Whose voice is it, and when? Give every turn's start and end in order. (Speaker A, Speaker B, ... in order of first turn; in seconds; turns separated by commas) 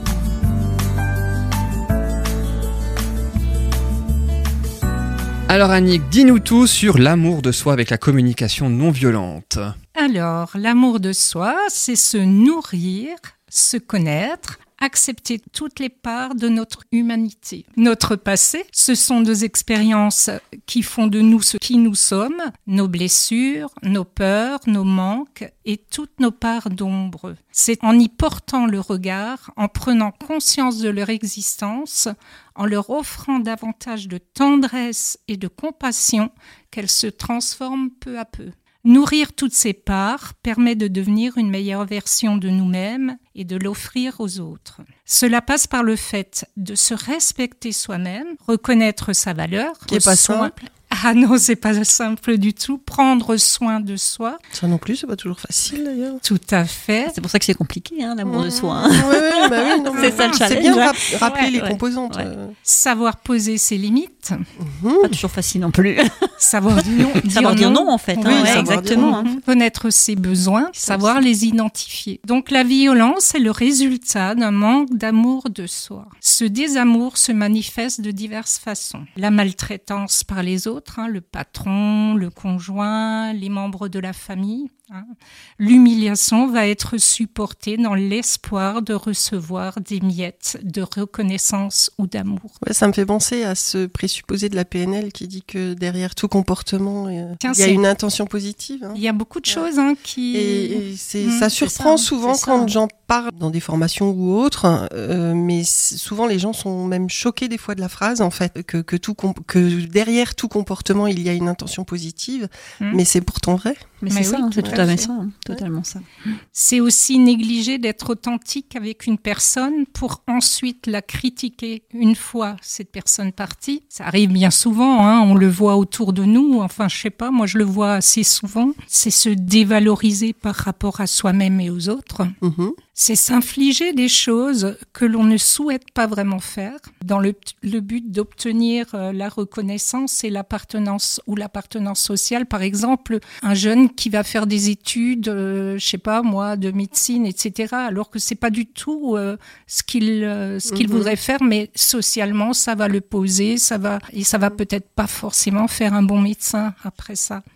Speaker A: 5.5-9.7, Speaker B: 9.9-54.4, Speaker C: 49.9-50.5, Speaker C: 54.5-56.2, Speaker B: 56.2-57.2, Speaker D: 57.1-62.3, Speaker C: 58.2-62.5, Speaker B: 59.9-60.5, Speaker B: 62.6-64.3, Speaker C: 64.6-65.2, Speaker D: 65.0-66.1, Speaker B: 66.4-92.5, Speaker D: 66.8-69.3, Speaker C: 68.2-69.2, Speaker D: 70.8-71.2, Speaker C: 92.6-99.7, Speaker B: 97.4-97.8, Speaker B: 98.9-102.8, Speaker C: 100.3-114.0, Speaker D: 114.0-116.0, Speaker B: 114.1-115.1, Speaker C: 114.6-114.9, Speaker B: 116.5-132.3, Speaker C: 132.4-132.8, Speaker B: 132.9-157.4, Speaker C: 150.7-151.1